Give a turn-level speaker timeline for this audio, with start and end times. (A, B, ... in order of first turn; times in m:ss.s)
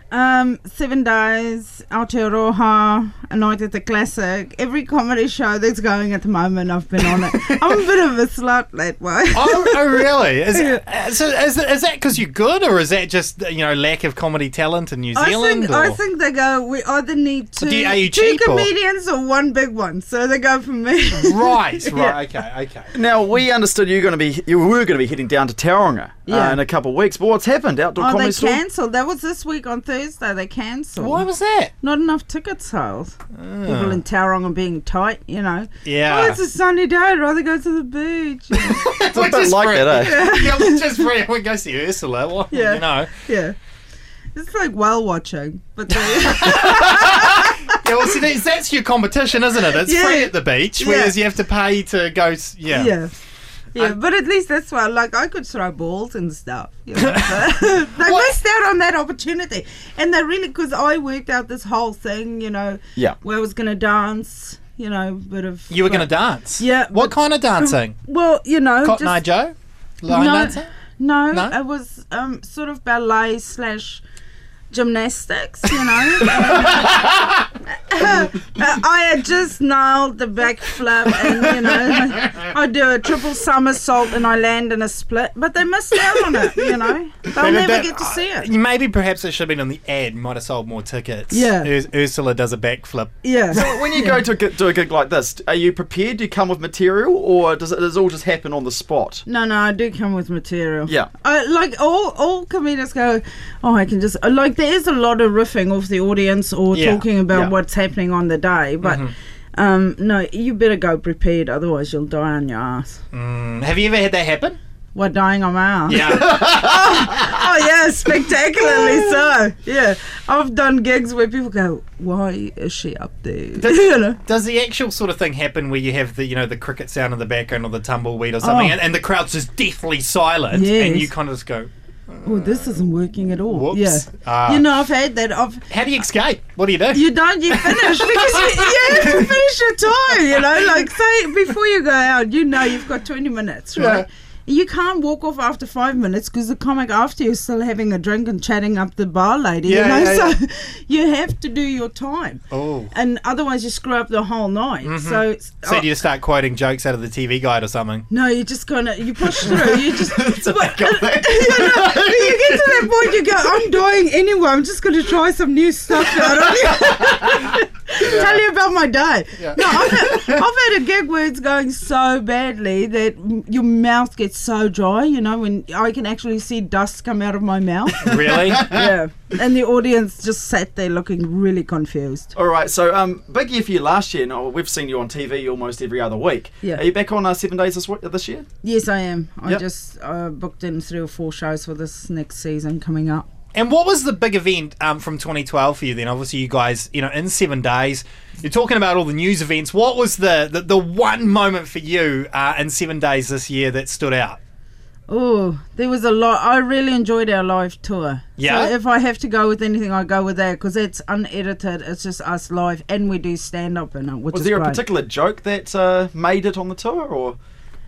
0:00.1-0:10.0 A
0:07.0-0:07.6 B
0:09.3-0:16.0 B
0:10.5-0:10.8 A
0:15.1-0:22.1 A
0:17.6-0:18.7 B
0:21.1-0:22.9 B
0:22.9-0:28.6 C
0:26.3-0:26.6 A
0:28.0-0:31.2 A
0:31.0-0:31.7 B
0:31.8-0:38.8 A
0:33.4-0:34.0 B
0:35.8-0:36.4 B
0:38.6-0:43.2 B
0:39.1-0:40.2 C
0:40.0-0:41.1 A
0:42.5-0:43.5 A
0:44.3-0:47.7 A
0:45.9-0:53.0 B
0:49.8-0:51.1 A
0:52.7-0:53.2 A
0:53.7-1:09.2 A
0:58.0-0:58.3 B
1:05.7-1:08.0 B
1:08.8-1:10.7 B
1:10.1-1:14.0 A
1:14.7-1:17.0 A
1:16.5-1:17.4 B
1:17.7-1:28.5 A
1:27.4-1:33.7 B
1:31.3-1:31.7 A
1:33.2-1:34.2 A
1:33.5-1:39.2 C
1:39.2-1:53.0 A
1:46.7-1:47.0 B
1:48.8-1:49.1 B
1:53.1-1:54.6 B
1:54.9-2:04.2 A
1:55.9-1:57.4 B
1:58.6-1:59.3 B
2:03.6-2:14.6 B
2:08.4-2:08.8 A
2:10.5-2:11.1 A
2:12.2-2:15.7 A
2:15.7-2:19.3 B
2:16.9-2:35.9 A
2:23.8-2:24.0 B
2:29.6-2:30.3 B
2:32.5-2:32.9 B
2:34.8-2:38.0 B
2:38.1-2:58.0 A
2:39.3-2:42.9 C
2:47.2-2:47.4 B
2:48.0-2:48.4 B
2:49.4-2:50.1 B
2:58.0-2:58.9 B
2:58.0-2:58.9 C
2:58.5-3:02.3 A
3:02.3-3:08.4 C
3:08.6-3:13.3 A
3:13.5-3:24.4 B
3:25.1-3:34.8 A
3:28.4-3:28.7 B
3:34.3-3:37.4 C